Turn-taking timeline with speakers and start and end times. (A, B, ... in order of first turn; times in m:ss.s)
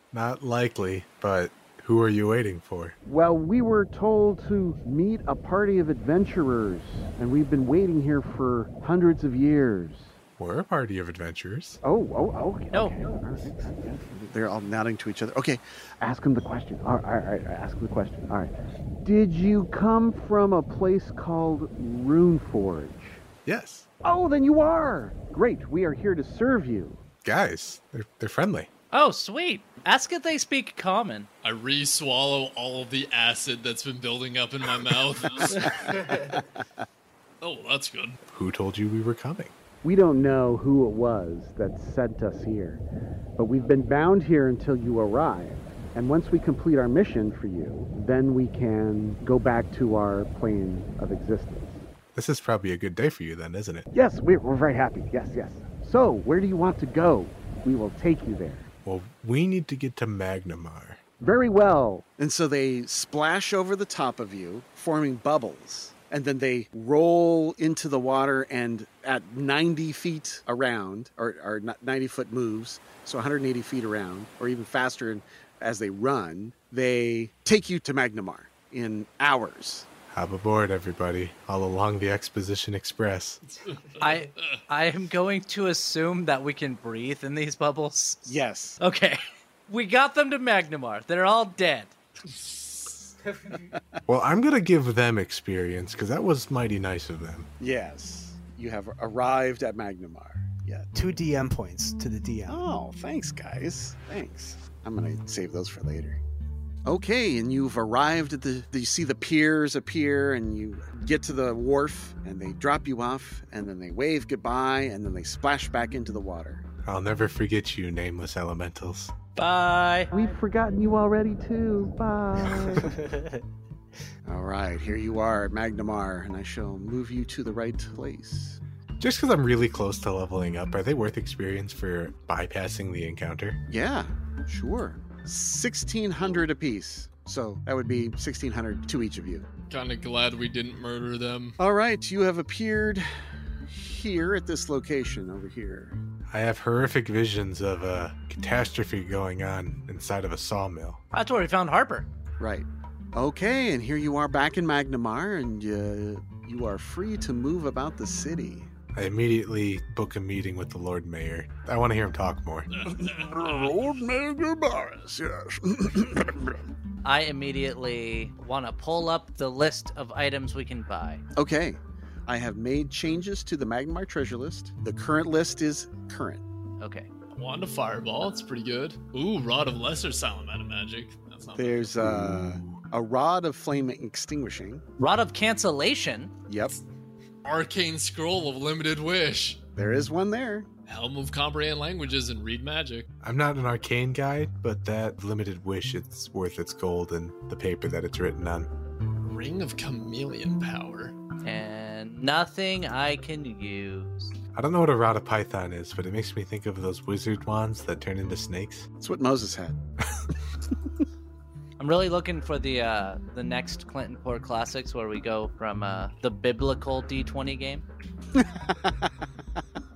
0:00.1-0:03.0 A
0:03.0-0:10.2 B
0:10.4-0:11.8 A
0:11.8-0:23.2 B
0:12.7-0:13.0 C
0:23.4-0:23.9 A
0:24.0-0:27.0 B
0:27.2-0:28.7 A
0:28.9-0:31.3 C
0:31.4-0:36.0 D
0:35.4-0:36.6 B
0:37.4-0:38.2 D
0:38.3-0:39.6 A
0:39.8-0:42.8 B
0:43.4-0:51.8 B
0:52.1-0:53.9 A
0:53.9-0:58.7 B
0:58.8-1:01.0 A
1:01.2-1:19.9 B
1:20.1-1:23.4 A
1:23.6-1:24.6 D
1:24.0-1:32.0 C
1:28.3-1:28.8 B
1:33.7-1:34.0 B
1:34.1-1:37.5 A
1:37.6-1:40.9 B
1:40.9-1:42.6 E
1:42.5-1:46.2 B
1:46.9-1:56.6 B
1:56.8-1:59.1 A
1:59.4-2:00.1 C
2:00.1-2:03.0 B
2:02.8-2:03.4 E
2:04.2-2:08.6 B
2:09.0-2:13.6 A
2:13.7-2:19.5 B
2:19.7-2:21.6 D
2:21.6-2:26.0 B
2:26.3-2:31.0 A
2:31.1-2:32.1 C
2:32.4-2:38.7 B
2:38.9-2:42.7 A
2:42.7-2:43.9 D
2:42.9-2:46.6 B
2:47.0-2:51.2 C
2:51.4-2:56.4 B
2:56.8-2:57.1 C
2:57.3-3:02.1 D
3:01.6-3:04.8 B
3:05.0-3:06.3 C
3:06.5-3:06.8 B
3:07.4-3:09.6 D
3:09.8-3:10.7 B
3:10.9-3:13.1 D
3:13.2-3:18.7 A
3:19.2-3:21.2 D
3:21.4-3:24.3 C
3:24.5-3:28.9 A
3:29.0-3:29.8 B
3:31.8-3:37.8 C
3:38.3-3:39.1 B